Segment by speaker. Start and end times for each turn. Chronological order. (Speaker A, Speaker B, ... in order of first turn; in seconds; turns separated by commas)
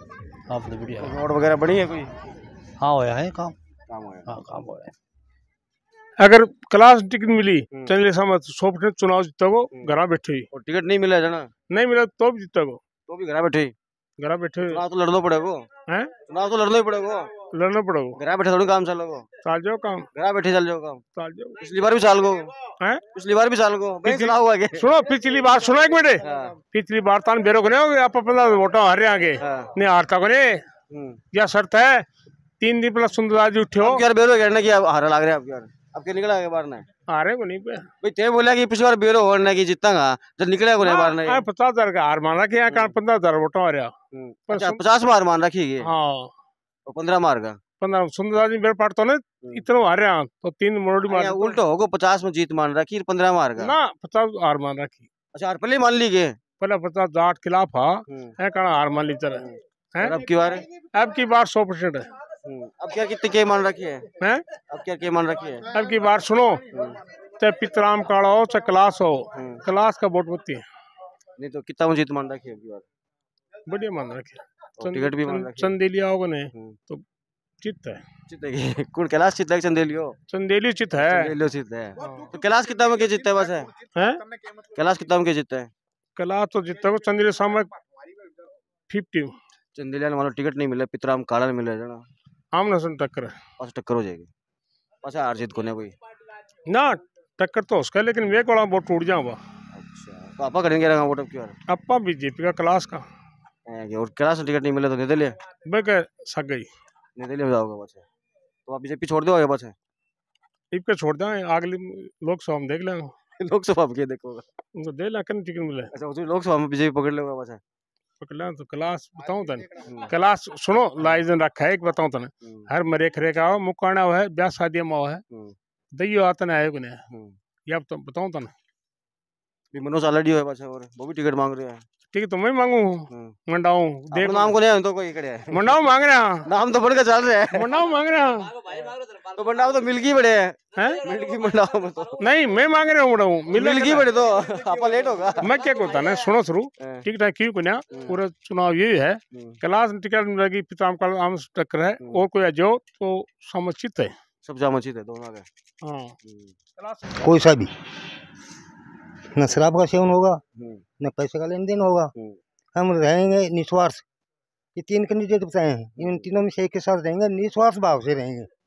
Speaker A: 0.5-1.2, Speaker B: 1.0-2.1, Speaker A: 2.8-3.5, Speaker B: 3.9-4.3, Speaker A: 4.3-4.9, Speaker C: 6.2-10.5, Speaker B: 10.5-11.5, Speaker C: 11.7-12.8, Speaker B: 13.1-13.7, Speaker C: 14.2-14.8, Speaker B: 14.7-15.7, Speaker C: 15.9-16.1, Speaker B: 16.2-17.5, Speaker C: 17.5-18.2, Speaker B: 18.2-19.3, Speaker C: 19.4-20.1, Speaker B: 20.1-21.0, Speaker C: 21.1-21.6, Speaker B: 21.6-22.6, Speaker B: 23.1-24.9, Speaker C: 24.0-30.6, Speaker B: 26.2-26.6, Speaker B: 29.4-29.7, Speaker B: 30.9-31.2, Speaker C: 31.3-32.0, Speaker C: 32.6-34.0, Speaker B: 33.8-36.9, Speaker C: 37.1-37.9, Speaker B: 38.0-41.4, Speaker C: 40.8-43.9, Speaker B: 42.7-43.0, Speaker B: 44.1-45.9, Speaker C: 44.5-44.8, Speaker C: 45.8-46.3, Speaker B: 46.9-47.6, Speaker C: 47.8-51.6, Speaker B: 51.1-53.7, Speaker C: 53.6-55.1, Speaker B: 55.3-56.4, Speaker C: 56.6-60.2, Speaker B: 58.1-58.3, Speaker B: 59.4-60.7, Speaker C: 60.8-62.1, Speaker B: 62.4-64.1, Speaker C: 64.2-64.5, Speaker B: 64.7-65.7, Speaker C: 65.7-66.7, Speaker B: 66.7-67.0, Speaker C: 67.4-70.6, Speaker B: 69.3-69.6, Speaker B: 71.4-72.8, Speaker C: 73.7-77.0, Speaker B: 74.8-75.8, Speaker C: 77.6-78.0, Speaker B: 78.3-80.2, Speaker C: 80.3-81.3, Speaker B: 81.0-83.9, Speaker C: 83.9-84.2, Speaker B: 84.7-85.7, Speaker C: 86.2-87.7, Speaker C: 88.9-89.3, Speaker B: 89.7-92.0, Speaker C: 92.5-93.4, Speaker B: 93.6-94.3, Speaker B: 95.0-95.9, Speaker C: 96.7-99.4, Speaker B: 99.7-101.5, Speaker C: 101.7-103.0, Speaker B: 103.7-105.4, Speaker C: 105.6-106.7, Speaker B: 107.2-108.0, Speaker B: 108.7-109.7, Speaker C: 110.7-113.1, Speaker B: 113.4-114.5, Speaker C: 114.7-115.9, Speaker B: 115.9-117.6, Speaker C: 118.2-125.2, Speaker B: 119.8-120.1, Speaker B: 125.3-125.5, Speaker C: 125.9-127.0, Speaker B: 127.1-127.4, Speaker C: 127.7-128.5, Speaker B: 129.7-131.8, Speaker C: 132.1-134.6, Speaker B: 133.1-133.3, Speaker B: 134.1-135.8, Speaker C: 135.5-136.5, Speaker B: 136.4-137.7, Speaker C: 137.5-138.7, Speaker B: 138.7-142.2, Speaker C: 140.7-141.0, Speaker C: 142.2-144.1, Speaker B: 143.5-145.6, Speaker C: 145.4-154.1, Speaker B: 146.8-147.1, Speaker B: 147.9-148.2, Speaker B: 149.3-149.6, Speaker B: 154.4-155.4, Speaker C: 155.8-156.1, Speaker B: 156.2-156.5, Speaker C: 156.8-157.0, Speaker D: 157.2-157.7, Speaker D: 159.3-160.4, Speaker B: 160.6-160.8, Speaker D: 161.0-162.1, Speaker D: 162.7-164.0, Speaker D: 164.8-168.5, Speaker B: 166.0-166.3